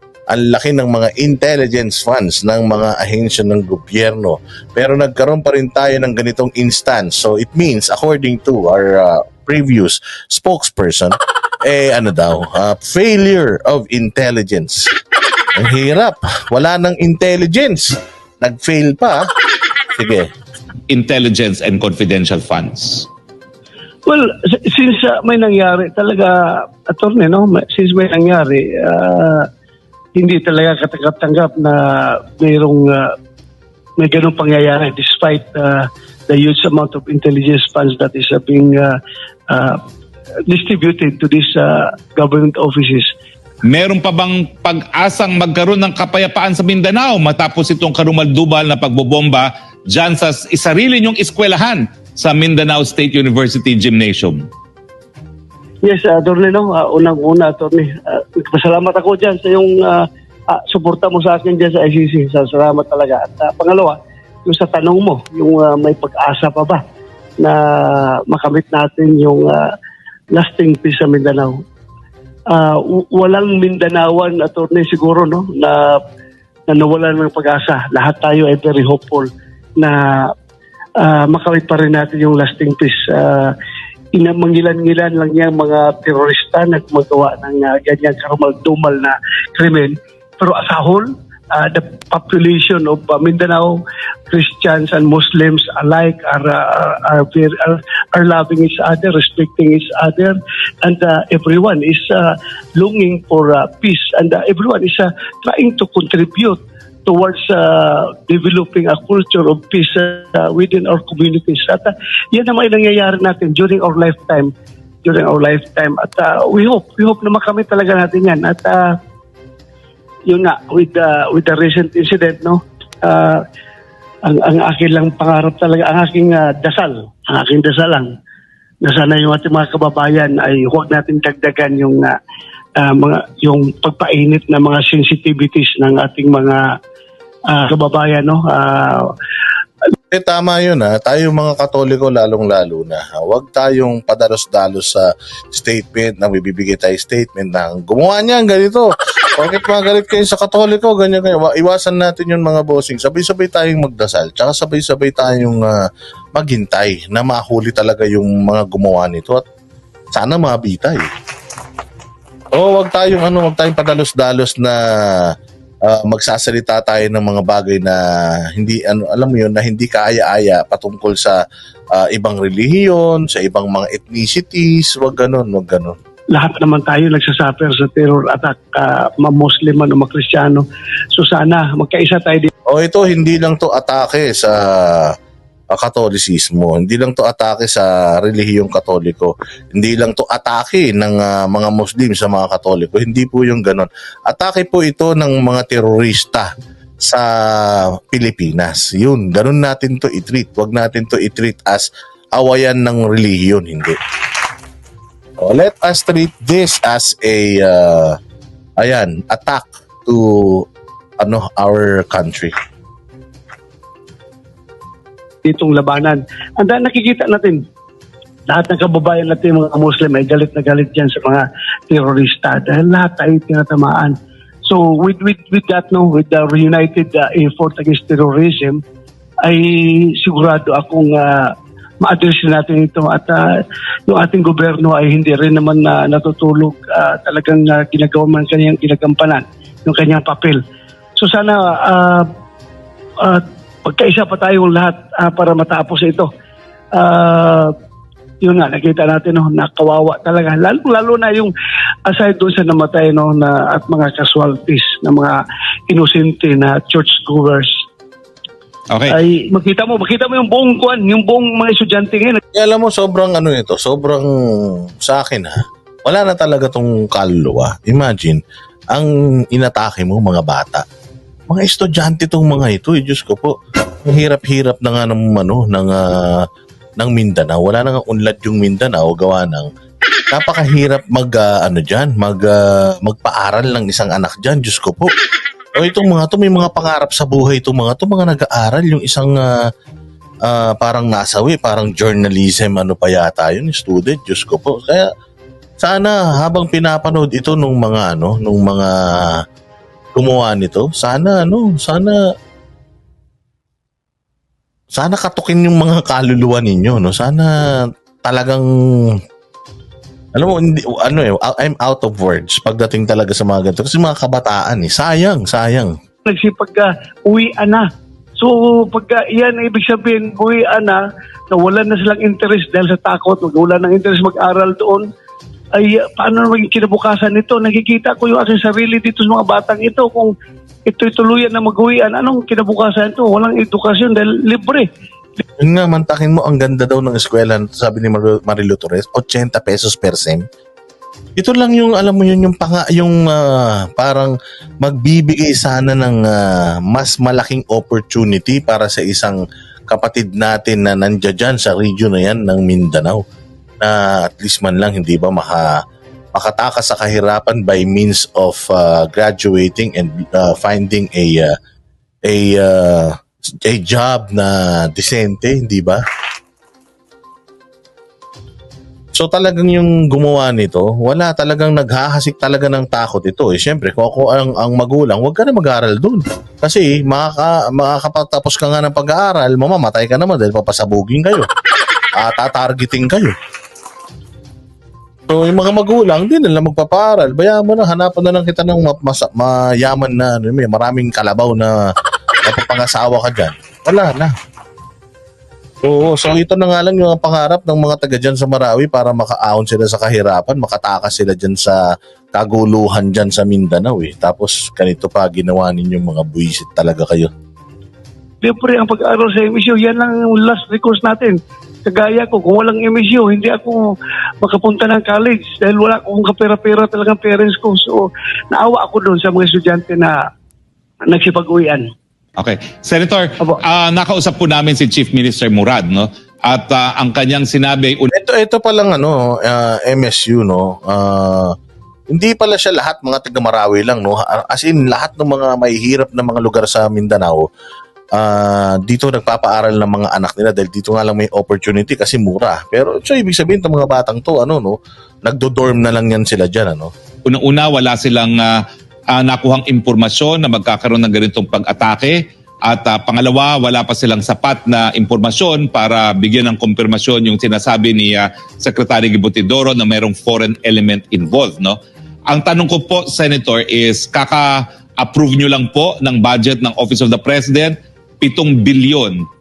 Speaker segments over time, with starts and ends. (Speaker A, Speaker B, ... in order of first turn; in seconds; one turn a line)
Speaker A: 0.3-14.9
Speaker A: 15.6-19.3
Speaker A: 20.0-20.3
Speaker B: 20.9-23.1
Speaker C: 24.1-29.5
Speaker C: 30.2-33.1
Speaker C: 34.0-38.9
Speaker C: 39.5-39.8
Speaker C: 40.5-43.1
Speaker B: 43.6-54.5
Speaker C: 55.8-66.8
Speaker C: 67.4-69.6
Speaker C: 70.3-71.5
Speaker C: 72.5-75.9
Speaker C: 76.7-80.0
Speaker C: 81.0-83.5
Speaker C: 84.2-93.8
Speaker C: 94.3-114.5
Speaker C: 115.0-118.8
Speaker C: 120.3-123.4
Speaker C: 124.3-128.1
Speaker C: 128.8-132.1
Speaker C: 132.8-136.6
Speaker C: 137.5-139.0
Speaker A: 140.1-155.8
Speaker A: 156.3-159.4
Speaker A: 160.1-161.1
Speaker A: 162.5-165.3
Speaker A: 165.9-168.0
Speaker A: 168.6-171.4
Speaker A: 171.9-176.0
Speaker C: 176.3-180.6
Speaker C: 181.1-182.5
Speaker A: 182.7-185.1
Speaker A: 185.7-196.5
Speaker A: 197.0-204.0
Speaker A: 205.4-208.2
Speaker A: 208.8-210.6
Speaker A: 211.2-212.5
Speaker C: 215.4-217.6
Speaker C: 218.5-224.1
Speaker C: 224.7-228.8
Speaker C: 229.4-231.5
Speaker C: 232.0-233.4
Speaker C: 234.1-240.6
Speaker C: 241.2-242.3
Speaker C: 243.2-246.3
Speaker C: 247.0-247.7
Speaker C: 248.4-251.5
Speaker C: 252.1-255.4
Speaker C: 255.9-257.7
Speaker B: 258.9-259.2
Speaker C: 259.1-262.4
Speaker A: 262.5-268.4
Speaker A: 268.9-270.8
Speaker A: 271.5-273.5
Speaker A: 274.1-276.4
Speaker A: 277.0-279.7
Speaker A: 280.3-285.1
Speaker A: 285.8-289.5
Speaker A: 290.5-295.1
Speaker A: 295.8-299.4
Speaker A: 300.1-302.2
Speaker A: 304.9-309.1
Speaker A: 310.4-315.9
Speaker C: 316.2-317.9
Speaker C: 318.4-321.0
Speaker C: 321.5-325.1
Speaker C: 325.8-330.3
Speaker C: 330.9-334.9
Speaker A: 335.6-340.4
Speaker A: 341.4-353.2
Speaker A: 353.8-355.8
Speaker A: 356.4-361.5
Speaker A: 362.2-366.0
Speaker A: 369.1-381.5
Speaker A: 382.2-383.4
Speaker A: 385.3-391.8
Speaker A: 392.4-394.3
Speaker A: 395.8-401.8
Speaker A: 402.3-407.3
Speaker C: 408.4-413.8
Speaker C: 414.4-420.2
Speaker C: 421.1-421.9
Speaker B: 422.4-428.1
Speaker A: 428.1-431.5
Speaker A: 432.1-437.5
Speaker A: 438.2-446.9
Speaker B: 447.3-448.6
Speaker B: 449.1-461.8
Speaker B: 462.3-469.2